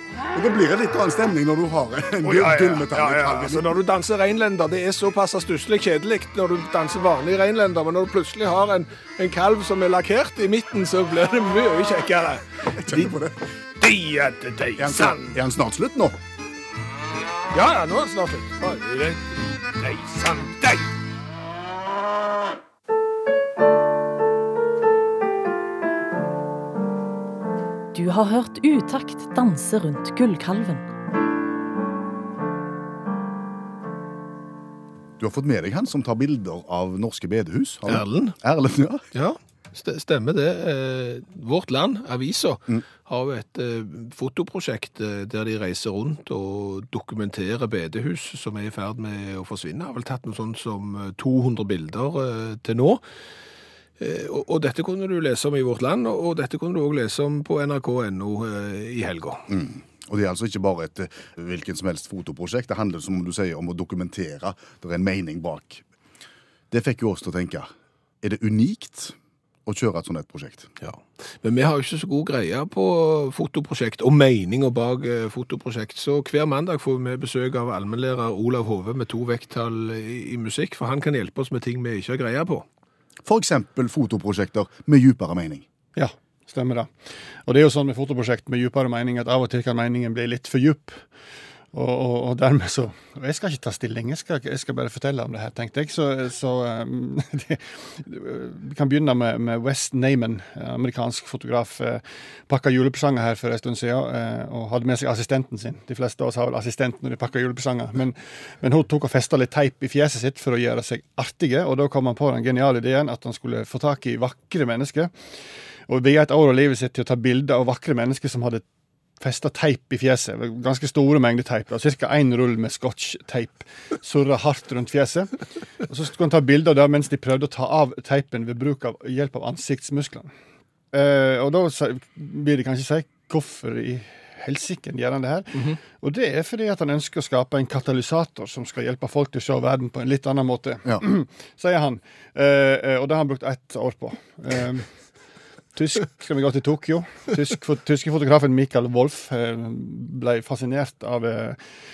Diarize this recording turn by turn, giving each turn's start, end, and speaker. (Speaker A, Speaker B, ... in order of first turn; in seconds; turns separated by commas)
Speaker A: 0.3-3.8, Speaker B: 2.2-13.1, Speaker A: 12.8-13.5, Speaker B: 13.8-15.3, Speaker A: 14.8-16.2, Speaker B: 17.5-20.9, Speaker C: 27.9-30.9, Speaker A: 35.2-39.0, Speaker B: 37.9-38.3, Speaker B: 39.1-53.0, Speaker B: 54.0-59.5, Speaker A: 59.5-65.8, Speaker A: 66.7-67.7, Speaker A: 68.2-70.7, Speaker B: 70.8-82.6, Speaker A: 83.2-85.6, Speaker D: 85.9-86.9, Speaker D: 87.5-91.0, Speaker D: 91.7-115.1, Speaker D: 115.9-118.6, Speaker D: 119.2-125.3, Speaker D: 125.8-130.3, Speaker D: 130.9-144.8, Speaker D: 145.7-151.6